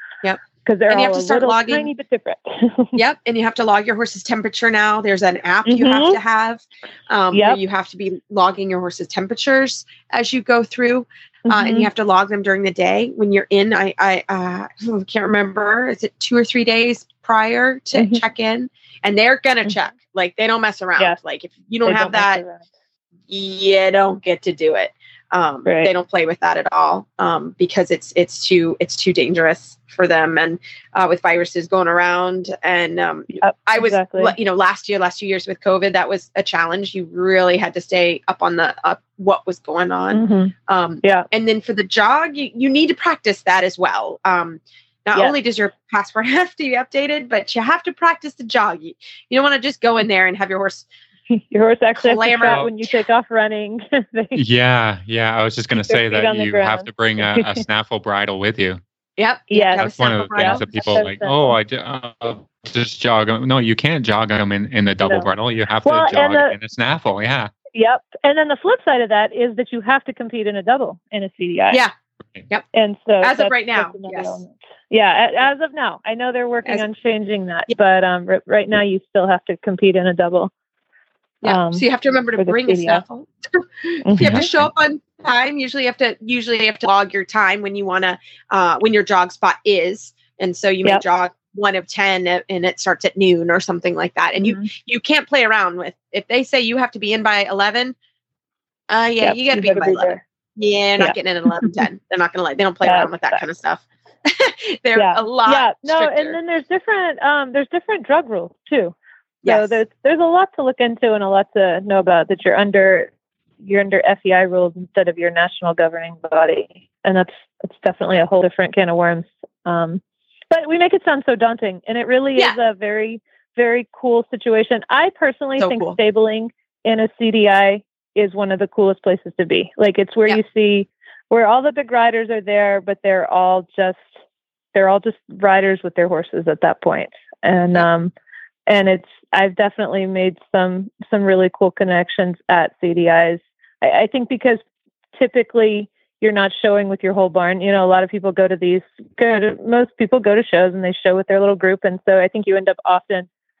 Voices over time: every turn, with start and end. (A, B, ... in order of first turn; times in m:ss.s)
0:00.2-0:01.9 A
0:00.6-0:03.0 B
0:02.9-0:22.4 A
0:05.6-0:06.2 B
0:07.3-0:07.6 B
0:11.5-0:11.9 B
0:17.9-0:18.2 B
0:21.8-0:22.6 B
0:23.3-0:50.9 A
0:25.6-0:25.9 B
0:33.3-0:34.3 B
0:40.1-0:41.3 B
0:51.3-0:54.4 B
0:52.0-0:53.0 A
0:52.4-0:52.7 C
0:54.3-0:58.8 C
0:55.7-0:57.6 B
0:59.2-1:01.0 A
0:59.5-1:01.6 B
0:59.7-1:07.5 C
1:05.0-1:05.3 B
1:05.8-1:06.6 B
1:07.7-1:11.8 B
1:12.7-1:20.5 B
1:13.2-1:14.4 A
1:21.4-1:38.0 A
1:21.4-1:21.8 B
1:22.4-1:23.0 B
1:24.0-1:24.5 B
1:34.4-1:34.6 B
1:38.9-1:46.4 A
1:39.2-1:40.2 B
1:41.0-1:41.8 B
1:42.8-1:43.4 B
1:45.0-1:53.1 B
1:49.4-1:49.8 A
1:53.6-2:14.1 B
2:05.6-2:06.0 A
2:14.7-2:18.1 B
2:18.7-2:24.6 B
2:25.1-2:33.3 B